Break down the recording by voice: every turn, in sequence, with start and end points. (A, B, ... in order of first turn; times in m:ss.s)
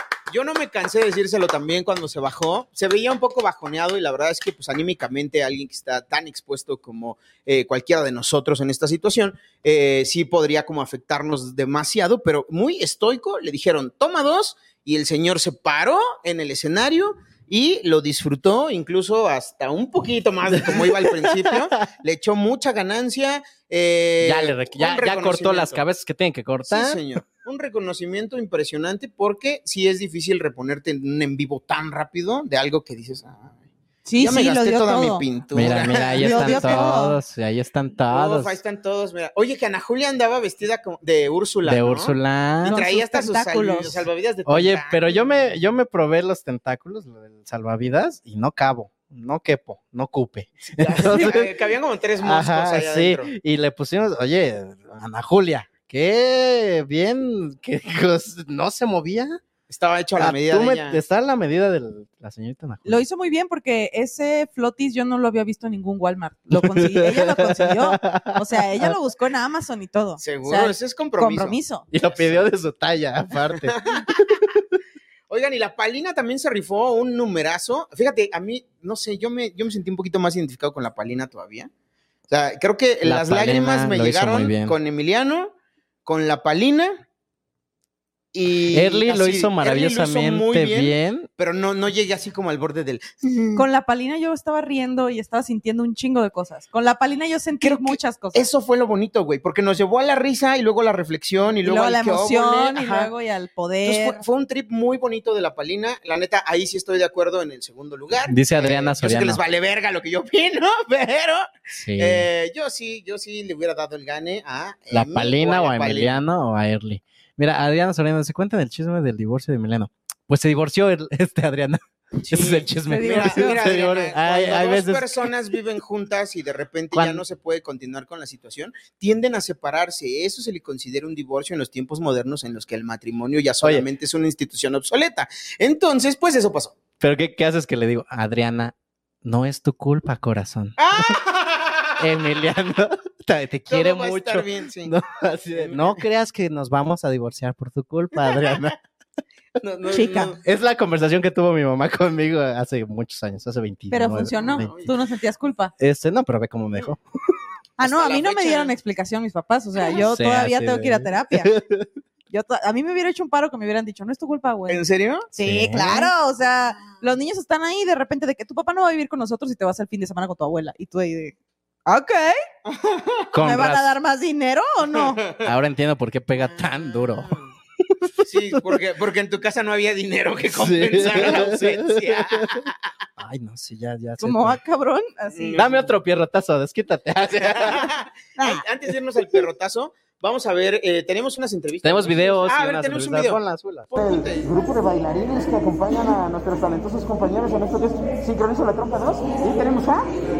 0:00.3-0:25.8 A
0:20.6-0:21.6 B
0:24.2-0:27.0 B
0:26.7-0:33.6 A
0:34.0-0:37.2 C
0:34.2-0:36.9 A
0:35.5-0:38.6 B
0:38.1-0:45.3 A
0:41.6-0:42.8 B
0:42.6-0:44.1 C
0:44.5-0:51.5 B
0:50.6-0:53.3 A
0:52.2-0:59.4 B
0:59.7-1:01.0 A
1:00.2-1:03.0 B
1:02.8-1:11.9 C
1:06.5-1:08.9 B
1:10.2-1:12.5 A
1:11.9-1:14.2 B
1:15.3-1:21.7 A
1:22.3-1:25.5 A
1:23.0-1:24.7 B
1:26.0-1:27.0 A
1:28.3-1:33.6 A
1:28.7-1:31.3 B
1:33.5-1:38.5 C
1:37.6-1:43.1 A
1:41.6-1:44.2 C
1:43.8-1:56.2 A
1:48.3-1:49.4 B
1:51.7-1:52.2 B
1:54.9-2:05.3 B
2:02.2-2:16.8 A
2:02.9-2:03.6 C
2:06.9-2:07.2 B
2:17.0-2:18.7 B
2:19.2-2:21.1 B
2:20.8-2:21.7 A
2:22.0-2:28.8 B
2:23.7-2:24.9 A
2:25.6-2:26.0 A
2:28.2-2:28.6 A
2:29.6-2:30.4 A
2:29.9-2:30.3 C
2:30.3-2:34.7 B
2:33.9-2:35.7 C
2:34.4-2:34.9 A
2:35.8-2:37.0 B
2:37.8-2:41.5 C
2:37.8-2:38.7 A
2:39.9-2:41.9 B
2:42.3-2:51.3 C
2:44.7-2:45.3 A
2:45.4-2:46.1 B
2:51.8-2:52.4 C
2:53.3-2:53.9 B
2:53.4-2:55.2 C
2:55.1-2:55.4 A
2:55.4-2:57.4 B
2:56.5-2:57.4 A
2:58.0-2:58.6 B
2:58.2-3:02.7 A
3:00.6-3:02.2 B
3:03.2-3:04.6 B
3:04.2-3:05.6 C
3:05.3-3:05.8 A
3:05.6-3:07.9 B
3:07.4-3:13.4 A
3:11.8-3:13.9 B
3:13.9-3:14.4 A
3:13.9-3:20.1 D